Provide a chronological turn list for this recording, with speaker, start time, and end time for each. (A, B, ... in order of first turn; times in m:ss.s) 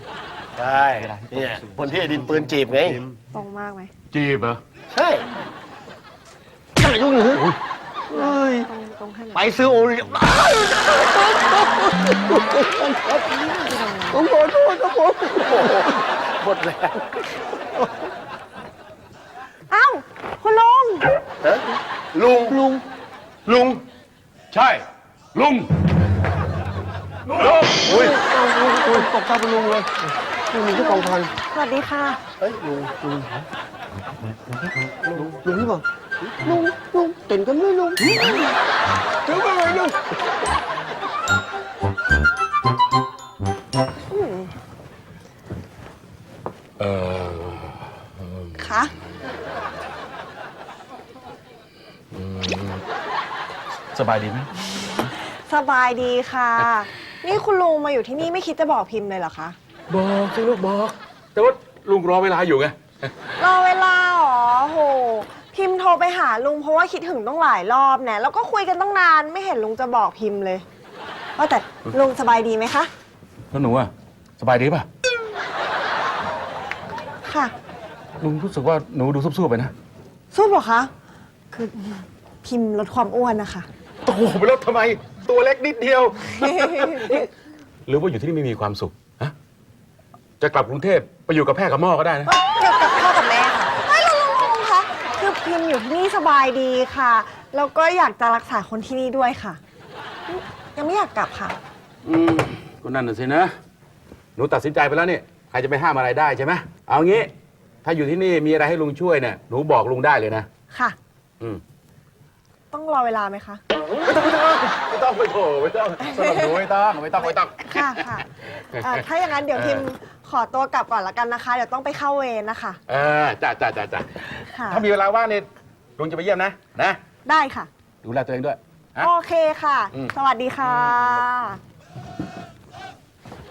0:00.6-0:03.0 A
0:01.0-0:03.2 B
0:03.3-0:03.9 C
0:04.1-0:04.6 D
0:04.9-0:05.2 A
0:06.8-0:07.6 B
0:08.1-0:08.7 B
0:08.2-0:09.4 C
0:09.3-0:13.3 B
0:13.3-0:14.2 C
0:14.1-0:16.0 B
0:15.8-0:17.0 A
0:19.7-0:21.2 C
0:21.4-0:22.6 A
0:22.5-0:22.8 B
0:23.5-0:23.8 A
0:24.5-0:25.7 D
0:27.3-0:29.9 B
0:30.5-0:31.3 B
0:30.8-0:32.2 C
0:32.5-0:32.8 A
0:32.5-0:33.4 B
0:35.1-0:38.4 B
0:39.2-0:40.0 B
0:44.1-0:44.5 C
0:46.8-0:48.7 D
0:48.6-0:48.9 C
0:52.1-0:52.8 D
0:53.9-0:54.5 D
0:55.3-0:59.6 C
0:59.9-1:03.1 D
1:03.4-1:10.6 C
1:11.4-1:12.9 C
1:13.5-1:14.9 D
1:17.3-1:17.5 C
1:18.2-1:19.7 D
1:20.3-1:20.9 C
1:21.5-1:23.7 C
1:24.0-1:27.3 D
1:27.9-1:29.3 D
1:30.4-1:32.3 D
1:32.3-1:39.6 C
1:40.3-1:41.6 C
1:42.0-1:43.5 D
1:44.4-1:47.3 D
1:47.8-1:50.5 D
1:52.7-1:53.6 C
1:54.0-1:58.2 D
1:57.6-2:02.8 C
1:58.7-1:59.9 D
2:02.9-2:07.0 D
2:04.5-2:04.8 C
2:07.3-2:07.7 C
2:08.0-2:09.1 D
2:09.0-2:11.6 C
2:09.9-2:11.2 D